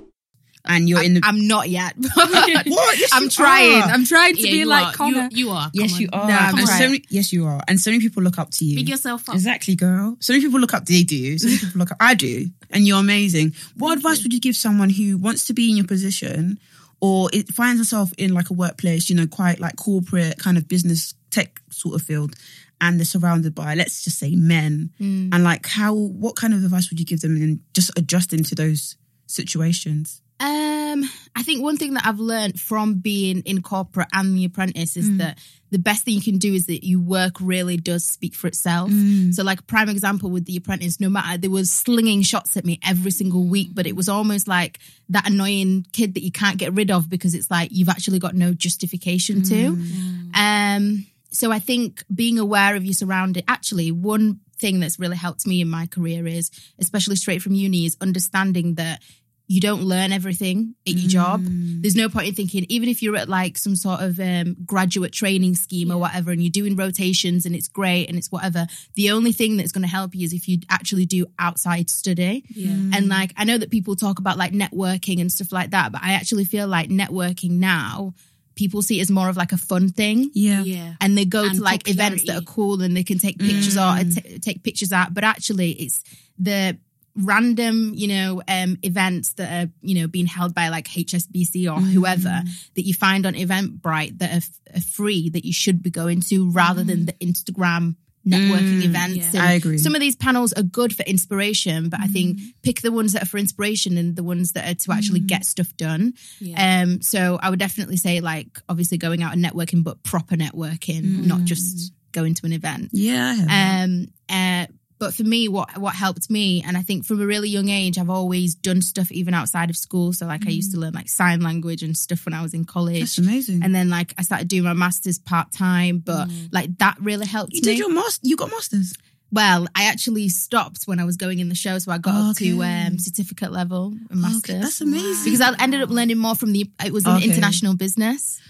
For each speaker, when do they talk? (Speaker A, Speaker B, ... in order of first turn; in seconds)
Speaker A: 0.7-1.3, 2.7-4.0, 5.7-30.2, 35.0-35.3, 38.9-39.4, 49.3-50.0, 60.9-61.9, 72.6-73.3, 80.3-80.7, 83.4-84.2, 91.8-92.5, 96.6-97.1, 98.3-99.9, 102.0-102.5, 104.9-105.4, 111.0-111.9, 112.9-113.8, 120.4-120.8, 123.0-123.7, 127.5-128.9, 132.0-133.1, 134.2-135.4, 137.0-137.6
Speaker B: 0.7-5.3, 6.2-6.9, 25.0-25.4, 30.4-80.3, 81.0-112.9, 113.5-127.8, 129.3-138.4
Speaker C: 2.3-2.7, 4.3-6.9, 8.7-9.4, 13.9-14.2, 43.4-43.9, 49.9-50.4, 65.8-66.1, 72.5-72.9, 80.5-82.5, 99.1-99.4, 106.4-106.7, 111.2-111.5, 126.1-126.5, 134.8-136.0